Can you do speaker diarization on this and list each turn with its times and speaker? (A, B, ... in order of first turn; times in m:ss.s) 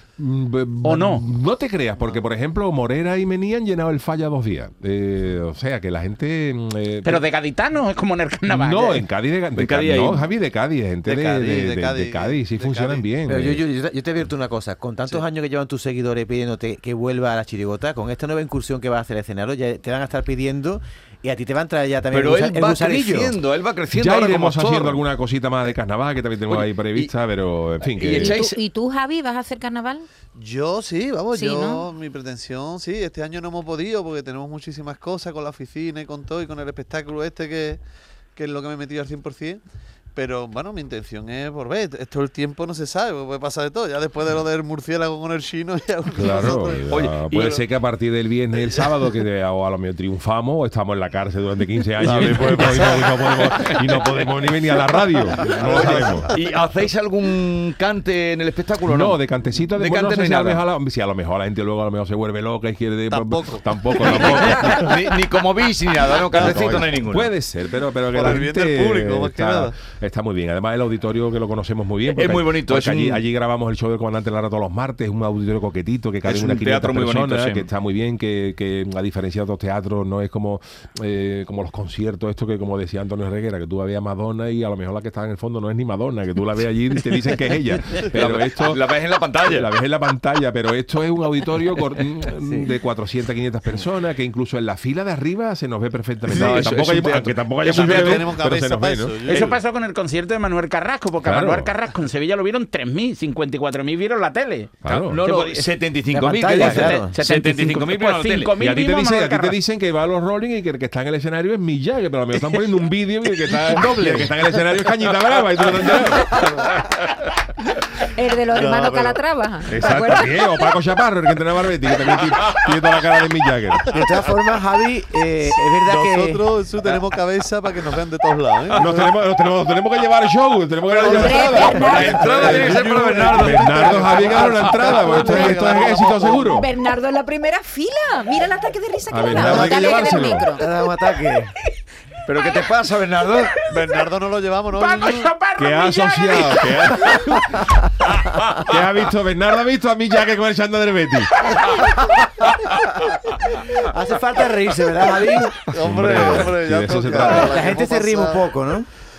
0:00.2-0:07.2 A
0:00.8-0:01.2 B
0:07.0-0:09.1 B
0:08.5-0:13.6 A
0:09.6-0:10.3 C
0:11.0-0:13.1 D
0:13.2-0:23.4 E
0:22.1-0:25.0 C
0:23.9-0:28.4 A
0:26.5-0:27.1 C
0:27.8-0:28.6 C
0:28.0-0:30.0 F
0:30.3-0:37.8 D
0:31.3-0:31.8 F
0:38.4-0:39.6 D
0:40.1-0:47.6 D
0:46.1-0:56.3 A
0:46.4-0:47.6 C
0:48.7-0:48.9 D
0:52.0-0:54.0 D
0:52.1-0:52.8 C
0:53.4-0:53.8 C
0:55.3-0:56.4 D
0:55.5-1:00.6 C
0:58.9-1:05.0 A
1:03.1-1:04.8 D
1:04.0-1:07.3 C
1:06.3-1:39.3 A
1:08.1-1:09.8 D
1:12.0-1:13.3 C
1:16.2-1:17.7 C
1:28.0-1:29.7 C
1:36.2-1:38.3 C
1:37.6-1:39.6 D
1:39.2-1:45.9 B
1:41.2-1:41.7 A
1:44.8-1:45.2 A
1:44.8-1:48.5 C
1:46.1-1:47.1 E
1:46.5-1:49.6 B
1:48.6-1:56.4 A
1:53.6-1:54.4 E
1:58.0-2:00.7 F
1:58.5-1:59.2 D
1:59.7-2:03.9 A
2:03.9-2:06.5 E
2:05.4-2:09.1 D
2:08.7-2:16.7 A
2:10.8-2:14.5 C
2:11.0-2:12.4 F
2:11.6-2:16.4 D
2:15.0-2:20.7 F
2:19.1-2:20.5 A
2:19.3-2:21.5 E
2:22.3-2:23.5 C
2:23.7-2:25.3 D
2:24.7-2:27.3 B
2:25.6-2:27.6 A
2:28.6-2:31.5 A
2:31.6-2:32.0 E
2:33.6-2:35.7 E
2:35.6-2:38.8 D
2:35.8-2:37.6 A
2:37.2-2:38.9 E